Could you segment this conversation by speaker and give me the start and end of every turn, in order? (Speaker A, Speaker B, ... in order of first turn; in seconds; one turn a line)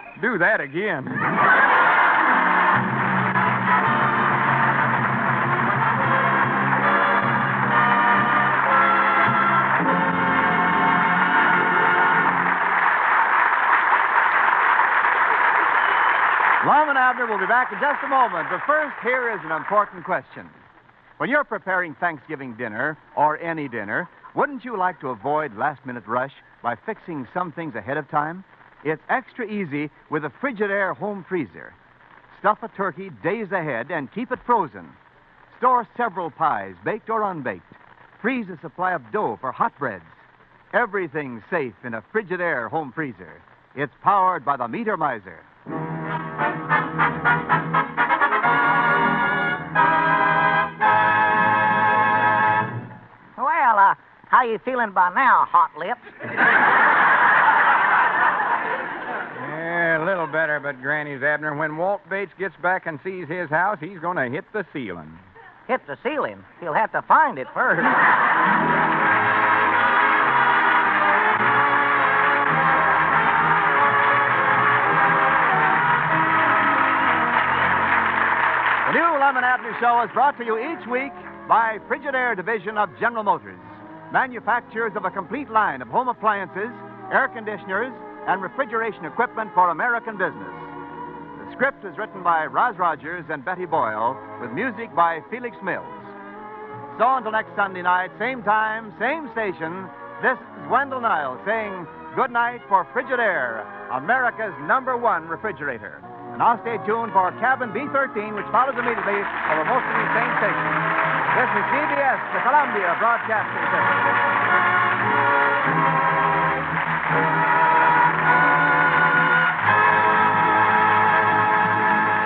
Speaker A: 0.2-1.4
Speaker B: 16.6-20.5
Speaker B: 21.2-31.8
Speaker B: 32.3-35.0
Speaker B: 35.5-40.2
Speaker B: 40.7-45.4
Speaker C: 53.4-56.1
Speaker A: 59.4-65.2
Speaker C: 65.7-68.0
Speaker B: 78.8-90.7
Speaker B: 91.4-96.1
Speaker B: 96.9-110.8
Speaker B: 111.3-114.1